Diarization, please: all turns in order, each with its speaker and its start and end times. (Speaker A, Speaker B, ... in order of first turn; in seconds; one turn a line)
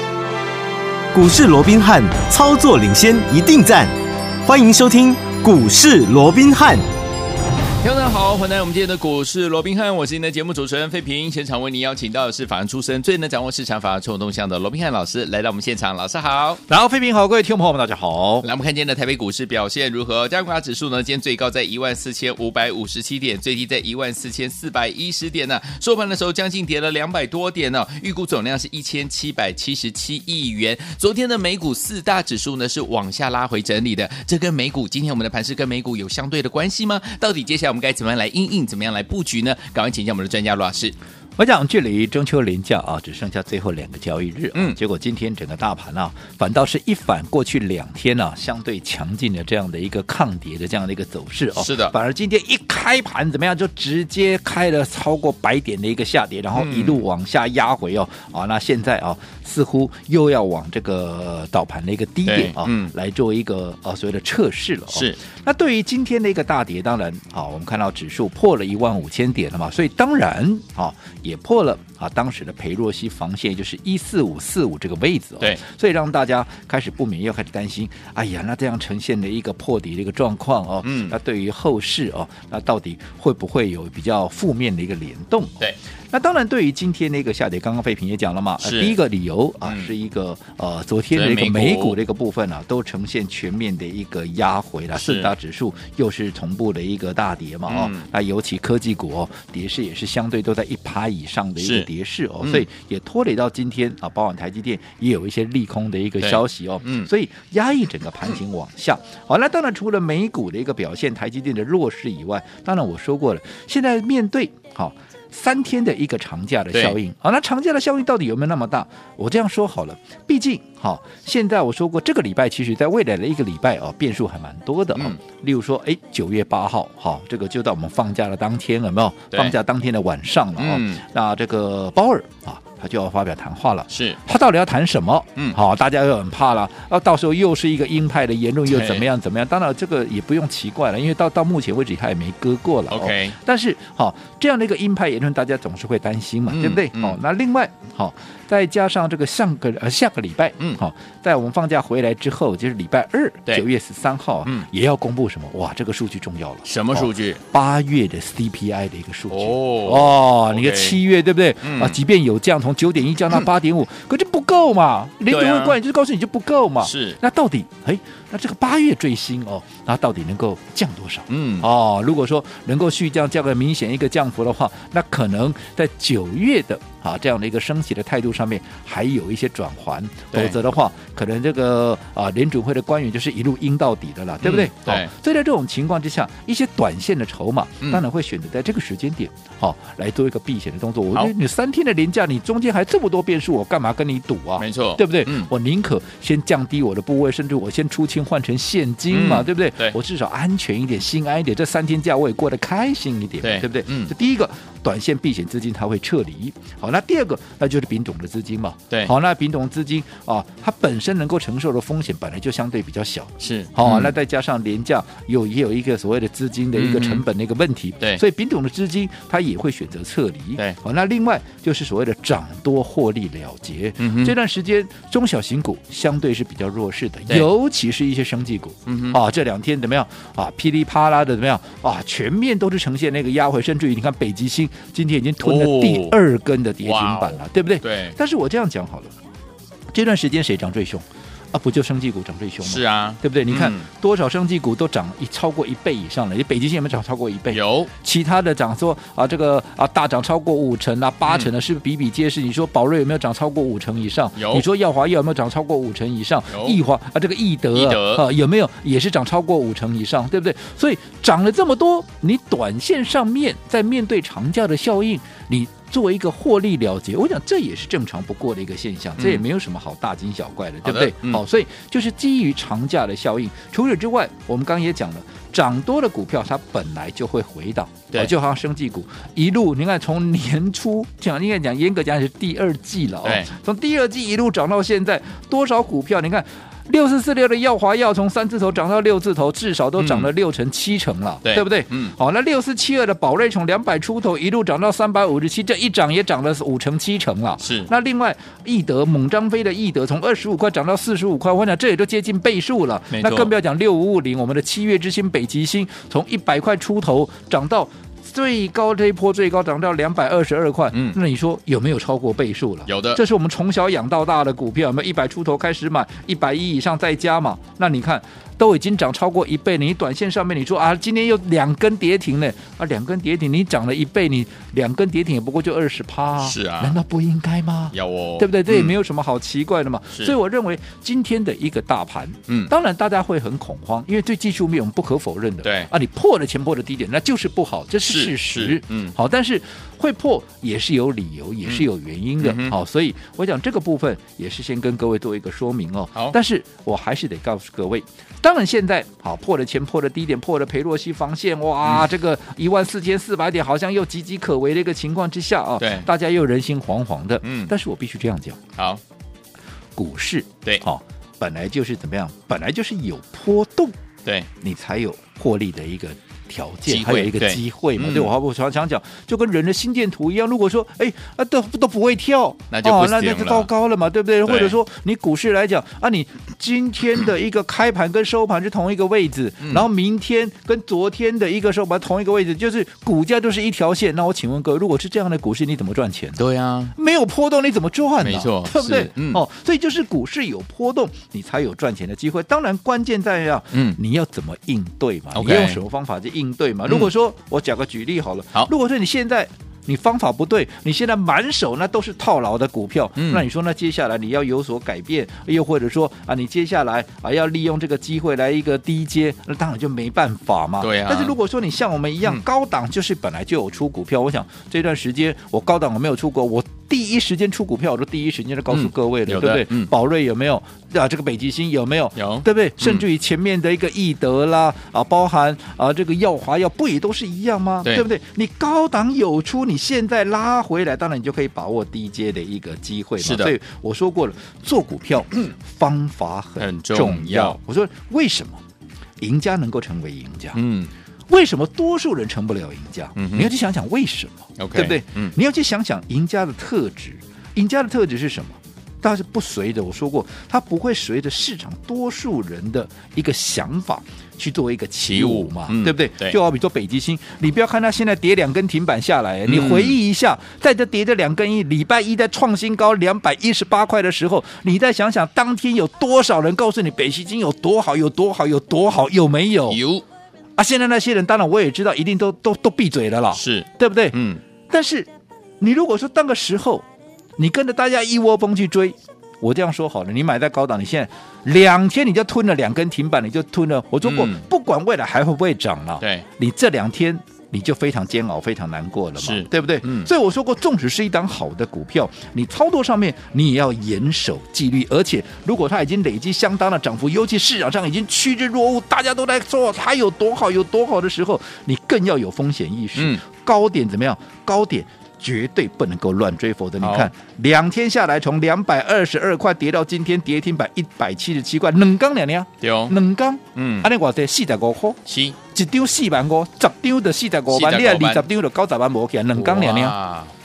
Speaker A: 1.1-3.9
Speaker A: 4.4-6.8
Speaker B: 7.8-16.6
Speaker C: 16.7-18.4
Speaker B: 18.4-40.9
Speaker C: 41.4-85.6
Speaker B: 51.5-51.9
Speaker B: 56.5-57.0
Speaker B: 62.2-62.9
Speaker B: 64.9-65.2
Speaker B: 80.8-81.1
Speaker C: 86.1-239.1
Speaker B: 88.6-89.0
Speaker B: 89.6-89.9
Speaker B: 91.1-92.0
Speaker B: 94.9-95.3
Speaker B: 97.7-98.0
Speaker B: 101.6-101.9
Speaker B: 102.4-102.7
Speaker B: 106.2-107.1
Speaker B: 129.3-129.6
Speaker B: 130.6-131.0
Speaker B: 133.9-134.2
Speaker B: 138.7-139.0
Speaker B: 142.9-143.3
Speaker B: 146.5-147.2
Speaker B: 156.6-157.4
Speaker B: 159.3-161.0
Speaker B: 161.6-162.0
Speaker B: 165.3-165.8
Speaker B: 166.8-167.2
Speaker B: 171.3-171.7
Speaker B: 184.4-185.1
Speaker B: 194.6-195.5
Speaker B: 199.1-199.9
Speaker B: 203.4-204.1
Speaker B: 213.4-214.1
Speaker B: 216.7-217.2
Speaker B: 224.0-224.3
Speaker B: 228.9-229.2
Speaker B: 235.4-236.2
Speaker B: 236.8-238.2
Speaker C: 239.9-358.6
Speaker B: 242.6-243.9
Speaker B: 247.5-247.9
Speaker B: 254.3-254.6
Speaker B: 256.5-256.8
Speaker B: 257.7-258.2
Speaker B: 269.2-269.4
Speaker B: 270.8-271.4
Speaker B: 283.2-283.5
Speaker B: 290.0-290.3
Speaker B: 291.4-292.1
Speaker B: 297.6-297.9
Speaker B: 303.1-303.5
Speaker B: 310.9-311.2
Speaker B: 312.9-313.2
Speaker B: 326.4-326.9
Speaker B: 327.9-328.9
Speaker B: 335.6-335.9
Speaker B: 338.1-339.1
Speaker B: 342.4-342.8
Speaker B: 355.8-356.1
Speaker B: 357.4-357.7
Speaker C: 359.9-363.9
Speaker B: 364.2-364.5
Speaker C: 364.6-386.4
Speaker B: 366.9-368.3
Speaker B: 372.7-373.7
Speaker B: 374.4-374.8
Speaker B: 379.6-379.9
Speaker B: 386.4-386.9
Speaker C: 386.9-438.6
Speaker B: 388.2-389.4
Speaker B: 393.7-394.0
Speaker B: 395.3-395.8
Speaker B: 403.2-403.5
Speaker B: 410.8-411.4
Speaker B: 418.7-419.9
Speaker B: 422.1-423.0
Speaker B: 433.2-433.5
Speaker B: 436.6-437.6
Speaker C: 439.2-440.6
Speaker B: 440.5-440.9
Speaker C: 441.3-469.8
Speaker B: 443.1-443.5
Speaker B: 444.6-445.3
Speaker B: 455.0-456.4
Speaker B: 459.4-460.0
Speaker B: 469.7-470.0
Speaker C: 470.6-474.1
Speaker B: 473.3-474.4
Speaker C: 474.7-475.1
Speaker C: 475.6-476.8
Speaker C: 477.4-515.0
Speaker B: 484.0-484.4
Speaker B: 486.0-486.2
Speaker B: 489.2-490.1
Speaker B: 502.9-503.2
Speaker B: 506.8-507.1
Speaker B: 512.6-513.0
Speaker B: 513.5-513.9
Speaker B: 515.0-515.4
Speaker C: 515.5-519.9
Speaker B: 517.5-518.3
Speaker B: 519.3-520.3